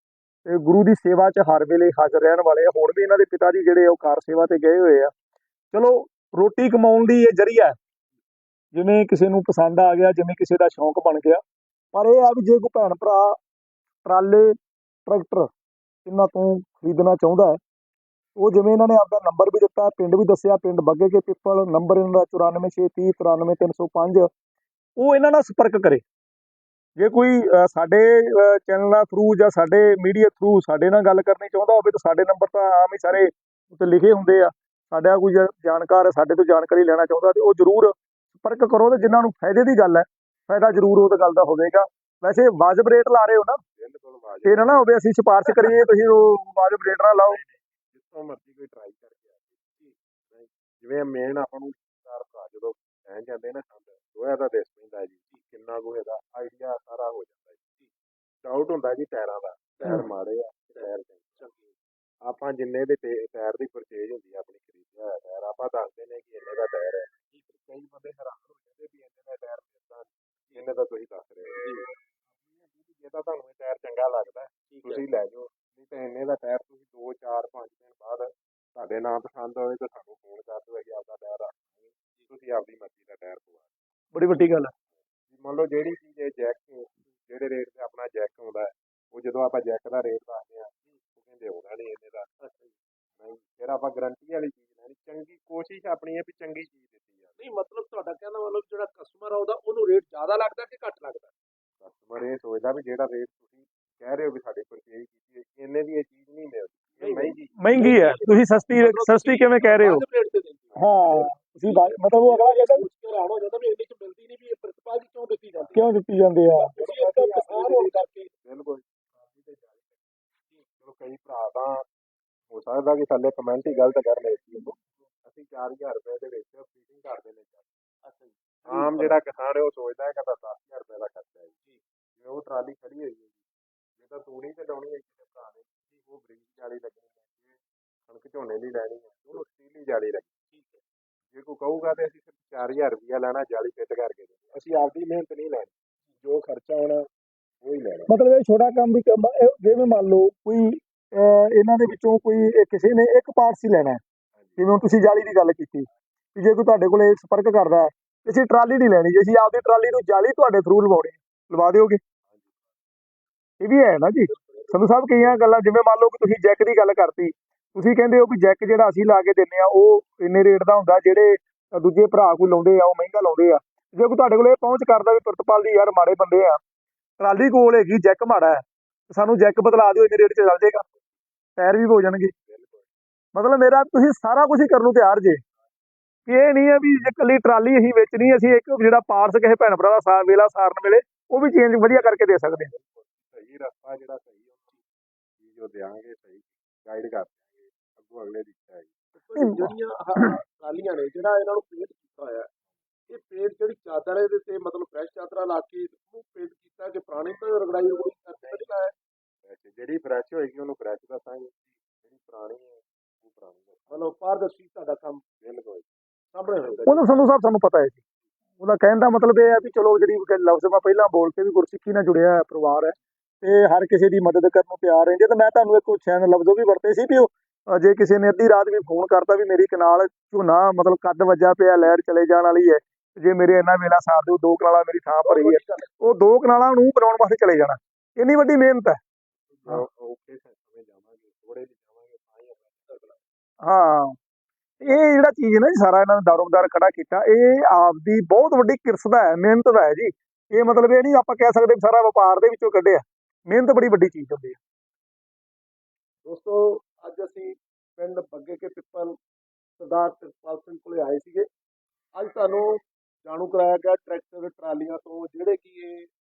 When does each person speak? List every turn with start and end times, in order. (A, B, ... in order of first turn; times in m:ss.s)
0:00.4-0:05.1 A
0:05.7-0:07.8 A
0:08.7-0:11.4 A
0:11.9-0:13.4 A
0:14.0-0:14.5 A
0:15.0-0:15.5 A
0:16.0-0:17.6 A
0:18.4-0:24.3 A
0:25.0-0:26.0 A
0:27.0-0:43.6 A
0:43.8-0:44.8 B
0:44.4-0:47.4 A
0:47.2-0:49.6 B
0:50.3-0:57.6 B
0:58.4-1:01.4 B
1:01.4-1:01.7 C
1:02.2-1:11.8 B
1:12.8-1:23.7 B
1:14.7-1:15.0 C
1:24.1-1:24.7 A
1:25.3-1:32.3 B
1:32.4-1:32.7 C
1:33.2-1:37.4 B
1:37.4-1:41.3 C
1:41.8-1:47.6 B
1:47.0-1:55.9 C
1:47.6-1:50.0 A
1:50.7-1:51.1 B
1:50.8-1:52.8 A
1:55.7-1:58.0 A
1:56.6-1:58.3 C
1:58.4-1:58.8 B
2:00.8-2:01.8 B
2:02.5-2:07.7 B
2:08.0-2:09.2 C
2:08.7-2:11.5 B
2:12.2-2:13.4 B
2:14.0-2:20.3 B
2:20.5-2:20.8 C
2:21.3-2:27.0 B
2:27.6-2:28.1 B
2:28.1-2:34.0 A
2:34.4-2:34.7 B
2:34.6-2:42.0 A
2:42.3-2:42.6 B
2:43.6-2:56.6 A
2:44.3-2:44.7 C
2:57.2-3:00.8 A
3:01.6-3:02.3 A
3:02.5-3:02.9 B
3:03.3-3:05.4 A
3:06.2-3:12.7 A
3:12.7-3:14.8 B
3:15.4-3:18.9 B
3:19.1-3:22.5 C
3:19.4-3:20.3 A
3:23.1-3:28.9 C
3:29.4-3:34.0 B
3:33.9-3:35.2 C
3:35.4-3:35.8 B
3:36.3-3:37.0 C
3:36.7-3:36.9 B
3:36.9-3:38.0 A
3:38.6-3:59.0 A
3:55.2-3:56.0 C
3:59.6-4:03.0 B
4:03.6-4:04.1 A
4:04.8-4:14.6 A
4:16.2-4:19.2 C
4:19.8-4:21.5 C
4:22.1-4:26.1 C